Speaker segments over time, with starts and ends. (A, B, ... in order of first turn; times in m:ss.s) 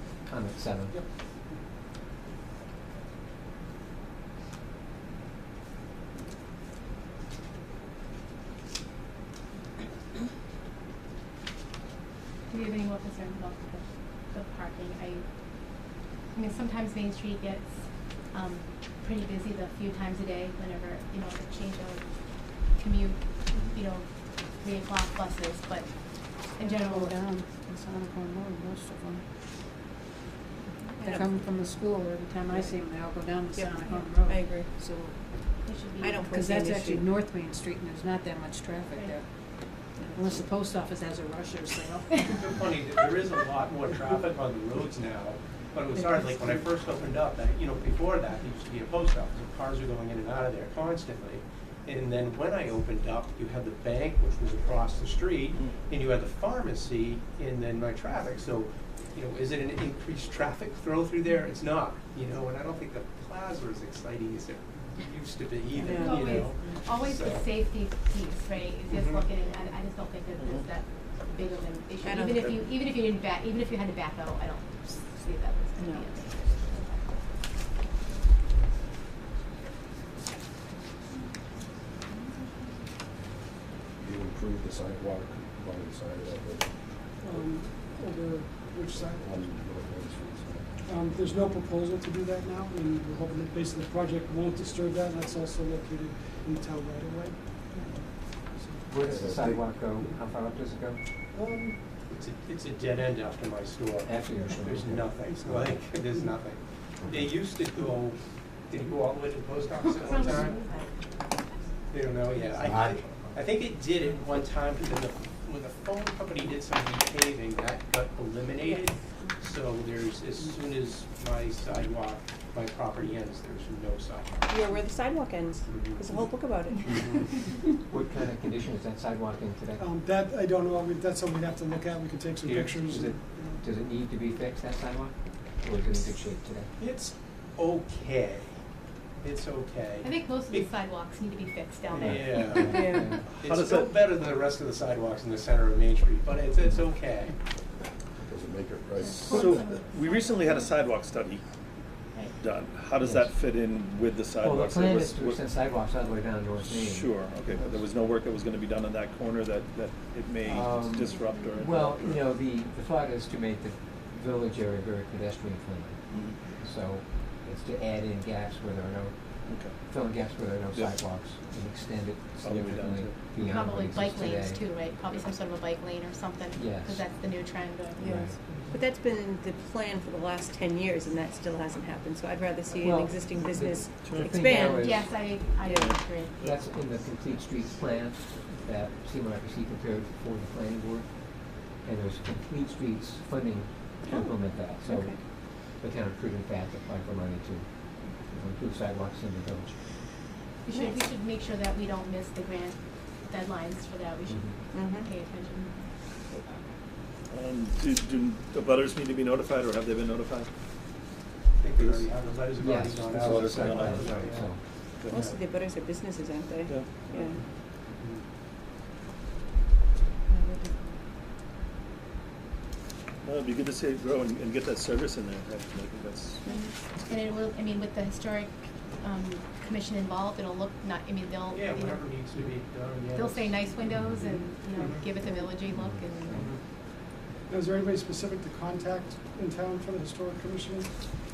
0:00.3-0:01.0 A
0:00.9-0:01.6 B
0:12.5-0:15.2 C
0:16.3-0:17.7 C
0:18.3-0:22.0 C
0:22.7-0:24.0 C
0:24.6-0:25.9 C
0:26.5-0:27.1 C
0:26.7-0:29.2 D
0:31.0-0:39.2 D
0:31.0-0:31.3 E
0:32.5-0:32.8 E
0:33.5-0:34.7 E
0:35.6-0:36.2 C
0:36.0-0:37.0 E
0:38.9-0:39.2 C
0:40.1-0:42.6 D
0:42.3-1:07.5 F
1:05.8-1:06.7 E
1:06.0-1:17.1 C
1:08.9-1:09.2 F
1:12.0-1:12.6 E
1:15.8-1:16.1 E
1:24.0-1:26.7 G
1:27.2-1:29.4 B
1:29.1-1:30.7 G
1:30.8-1:37.8 B
1:38.5-1:39.2 B
1:38.9-1:41.0 A
1:39.1-1:39.7 G
1:41.3-1:41.8 B
1:42.1-1:50.6 F
1:44.0-1:45.1 A
1:49.8-1:50.9 C
1:51.9-2:04.3 F
2:04.5-2:07.2 E
2:05.7-2:06.0 F
2:06.8-2:07.2 F
2:07.9-2:09.9 A
2:09.8-2:13.6 B
2:12.4-2:16.7 A
2:16.8-2:18.5 F
2:19.2-2:20.7 F
2:20.0-2:23.2 C
2:21.9-2:27.4 F
2:22.0-2:23.2 A
2:22.7-2:23.1 E
2:23.2-2:24.0 H
2:28.2-2:29.2 G
2:29.0-2:30.7 C
2:29.1-2:31.4 H
2:32.4-2:35.5 H
2:33.0-2:33.3 A
2:34.4-2:37.1 A
2:36.6-2:42.2 H
2:40.4-2:54.6 A
2:46.1-2:46.4 H
2:49.5-2:49.8 H
2:50.7-2:51.0 H
2:52.4-2:53.2 H
2:53.4-2:58.4 C
2:56.5-2:57.0 A
2:58.0-2:58.4 A
2:58.7-3:04.9 E
3:02.8-3:03.1 A
3:03.6-3:04.3 H
3:04.1-3:05.1 A
3:04.6-3:06.3 C
3:05.6-3:05.9 E
3:05.8-3:06.6 H
3:06.4-3:19.7 A
3:14.8-3:15.2 E
3:20.6-3:25.8 C
3:24.3-3:24.6 A
3:24.7-3:25.1 E
3:27.3-3:30.5 H
3:31.6-3:34.5 F
3:31.7-3:32.4 H
3:32.5-3:34.6 A
3:33.0-3:34.3 H
3:35.1-3:35.4 F
3:35.1-3:37.4 E
3:36.7-3:37.0 H
3:37.1-3:38.2 F
3:40.3-3:41.0 E
3:43.2-3:46.4 H
3:46.4-3:46.7 E
3:46.5-3:52.0 C
3:51.5-3:53.9 F
3:53.1-3:56.5 C
3:54.7-3:55.0 F
3:55.7-3:56.4 A
3:56.3-3:56.6 F
3:57.5-4:00.9 B